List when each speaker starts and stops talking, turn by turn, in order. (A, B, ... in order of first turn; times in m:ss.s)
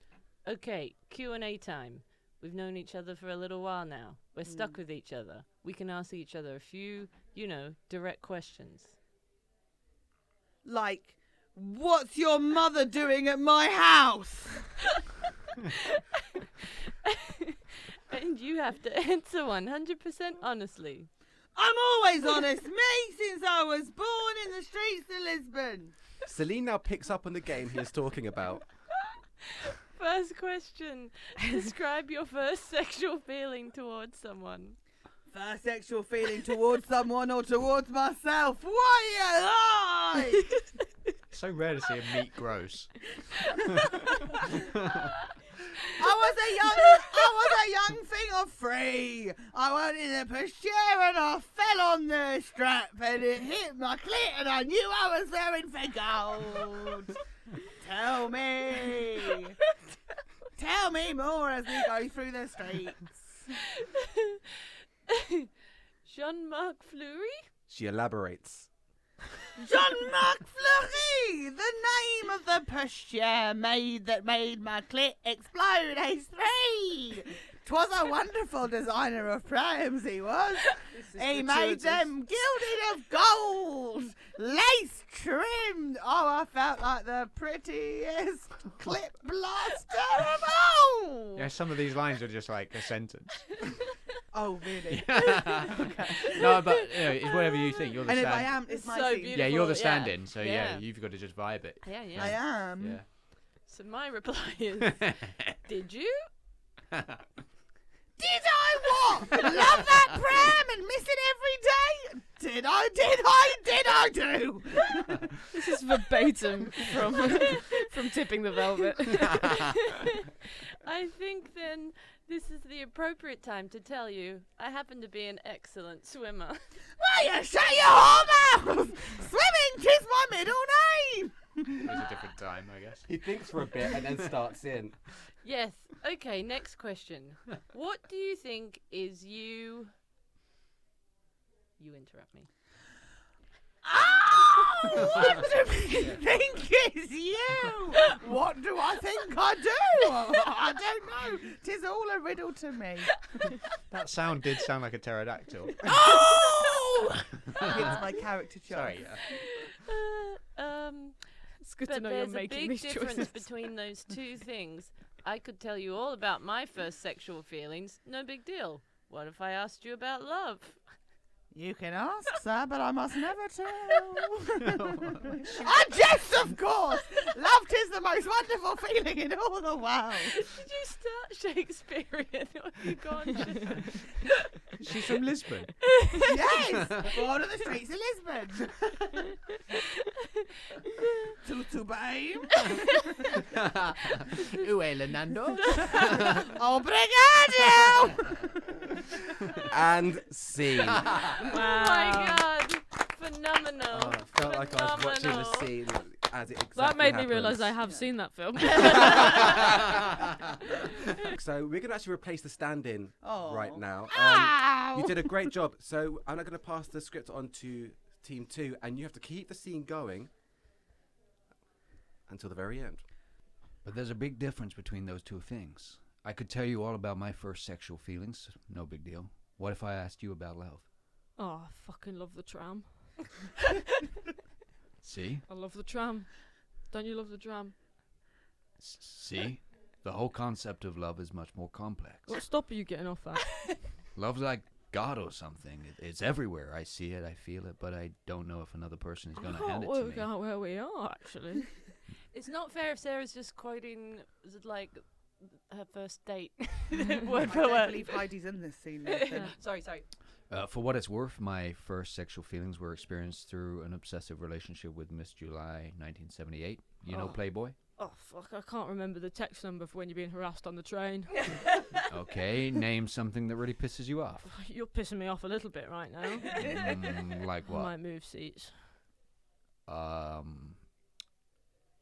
0:00.4-0:08.9 A
0:04.4-0:04.8 B
0:10.6-0:14.7 B
0:17.0-0:17.6 A
0:18.1-0:21.1 A
0:21.5-0:25.9 B
0:26.2-0:28.6 C
0:29.6-0:34.8 A
0:35.3-0:40.5 B
0:41.3-0:43.0 D
0:43.5-0:45.1 D
0:45.9-0:57.2 B
0:57.7-0:59.6 B
1:00.6-1:03.5 B
1:03.5-1:05.5 A
1:06.0-1:07.4 A
1:07.7-1:08.7 C
1:09.6-1:31.5 B
1:21.1-1:22.0 E
1:31.4-1:33.6 D
1:34.3-1:36.5 B
1:34.9-1:38.6 D
1:36.4-1:37.9 A
1:38.0-1:39.4 B
1:38.7-1:40.8 A
1:39.3-1:43.0 D
1:41.8-1:42.4 A
1:42.2-1:43.0 B
1:43.7-1:46.3 A
1:44.9-1:45.6 D
1:46.9-1:47.2 D
1:48.2-1:55.3 B
1:55.5-1:59.7 E
1:59.4-1:59.7 D
1:59.5-2:06.6 A
2:07.0-2:12.0 B
2:11.8-2:13.0 D
2:13.1-2:15.0 C
2:15.4-2:19.9 A
2:21.8-2:22.5 A
2:23.8-2:33.2 B
2:33.9-2:36.0 D
2:35.8-2:37.0 B
2:36.0-2:38.2 A
2:37.4-2:37.9 D
2:37.6-2:39.0 B
2:38.7-2:39.2 D
2:39.2-2:41.3 A
2:41.6-2:43.4 E
2:41.8-2:50.8 A
2:51.5-3:00.4 B
2:54.8-2:55.5 D
3:00.2-3:05.0 A
3:04.8-3:05.7 D
3:05.8-3:06.3 A
3:06.2-3:09.2 B
3:06.8-3:07.1 D
3:11.4-3:12.9 B
3:13.4-3:16.5 D
3:15.6-3:16.5 A
3:16.2-3:19.6 B
3:17.6-3:18.3 D
3:19.7-3:21.3 C
3:21.0-3:21.4 D
3:21.4-3:25.7 A
3:21.4-3:22.4 E
3:24.0-3:27.7 C
3:26.7-3:29.6 E
3:28.7-3:30.0 C
3:31.1-3:40.3 C
3:33.2-3:35.5 B
3:42.3-3:43.0 C
3:43.8-3:50.8 D
3:51.4-3:53.1 E
3:55.0-3:55.4 D
3:55.5-3:56.3 E
3:56.9-3:57.7 E
3:58.8-4:02.4 D
4:02.3-4:03.6 E
4:04.2-4:10.3 D
4:09.4-4:11.7 E
4:12.3-4:18.3 A
4:17.3-4:19.5 B
4:19.0-4:20.0 A
4:20.5-4:27.8 D
4:27.1-4:27.4 E
4:28.0-4:31.6 E
4:32.1-4:34.5 D
4:34.4-4:37.0 E
4:36.5-4:37.9 D
4:37.6-4:38.8 E
4:39.8-4:40.8 D